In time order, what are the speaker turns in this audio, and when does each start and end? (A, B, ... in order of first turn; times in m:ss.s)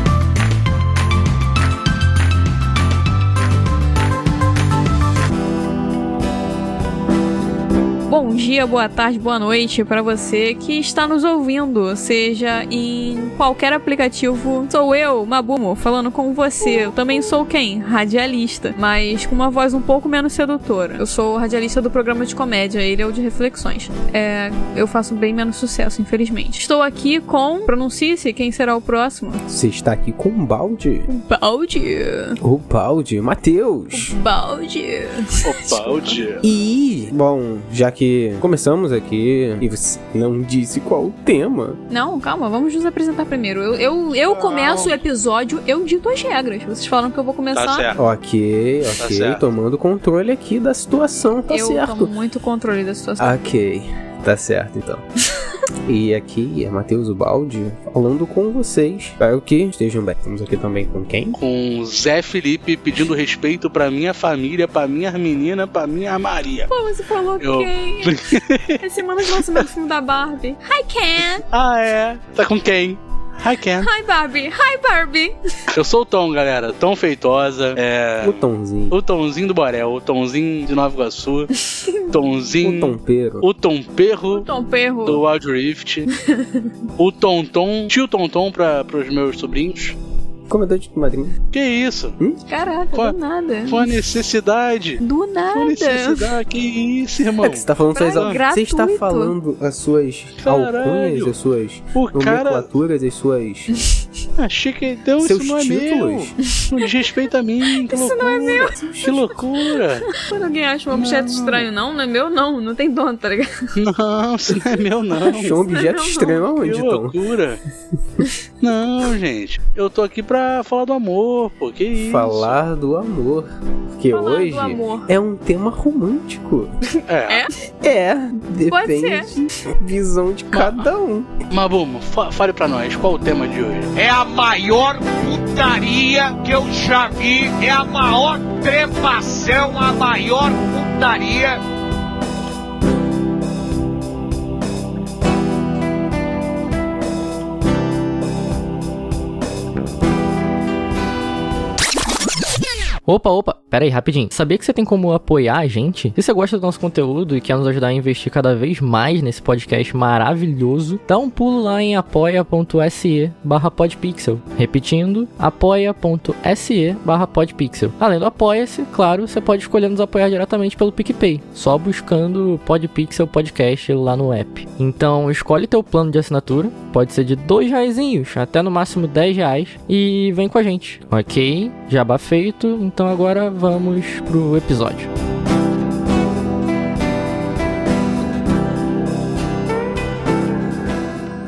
0:08.1-0:29.4 A
0:29.5-0:31.1 B
0:31.1-0:32.4 A
0:32.4-0:34.2 B
0:33.9-0:36.2 A
0:35.4-0:36.4 C
0:36.4-0:41.8 B
0:41.9-0:47.9 A
0:44.2-0:45.0 C
0:47.5-0:48.0 C
0:48.0-0:52.1 B
0:49.0-0:49.4 C
0:51.5-0:53.4 A
0:53.2-0:55.0 B
0:55.8-1:01.4 B
1:01.4-1:06.7 C
1:06.7-1:11.4 A
1:07.4-1:09.7 C
1:11.4-1:13.9 C
1:13.8-1:15.4 A
1:15.7-1:21.5 C
1:18.2-1:19.0 B
1:21.7-1:22.2 A
1:22.1-1:24.5 C
1:22.6-1:23.4 B
1:24.3-1:25.2 A
1:25.1-1:26.1 C
1:26.1-1:26.7 A
1:27.0-1:30.0 C
1:30.5-1:31.4 B
1:31.5-1:32.2 C
1:32.5-1:33.9 A
1:32.9-1:35.0 C
1:35.0-1:36.3 A
1:35.5-1:38.4 C
1:37.4-1:43.7 B
1:38.0-1:39.4 A
1:40.4-1:41.3 C
1:41.9-1:42.7 C
1:44.4-1:50.1 C
1:45.2-1:46.4 B
1:47.7-1:49.4 A
1:50.1-1:53.7 A
1:50.9-1:51.7 C
1:53.8-1:55.6 C
1:55.2-1:57.2 B
1:55.7-1:56.4 A
1:56.6-1:57.6 C
1:58.6-2:02.6 C
2:02.0-2:06.8 B
2:04.1-2:05.1 A
2:07.0-2:07.5 A
2:07.1-2:07.5 C
2:07.8-2:11.4 B
2:08.7-2:09.3 A
2:10.5-2:10.9 C
2:11.5-2:13.9 C
2:14.0-2:21.6 D
2:33.1-3:05.1 E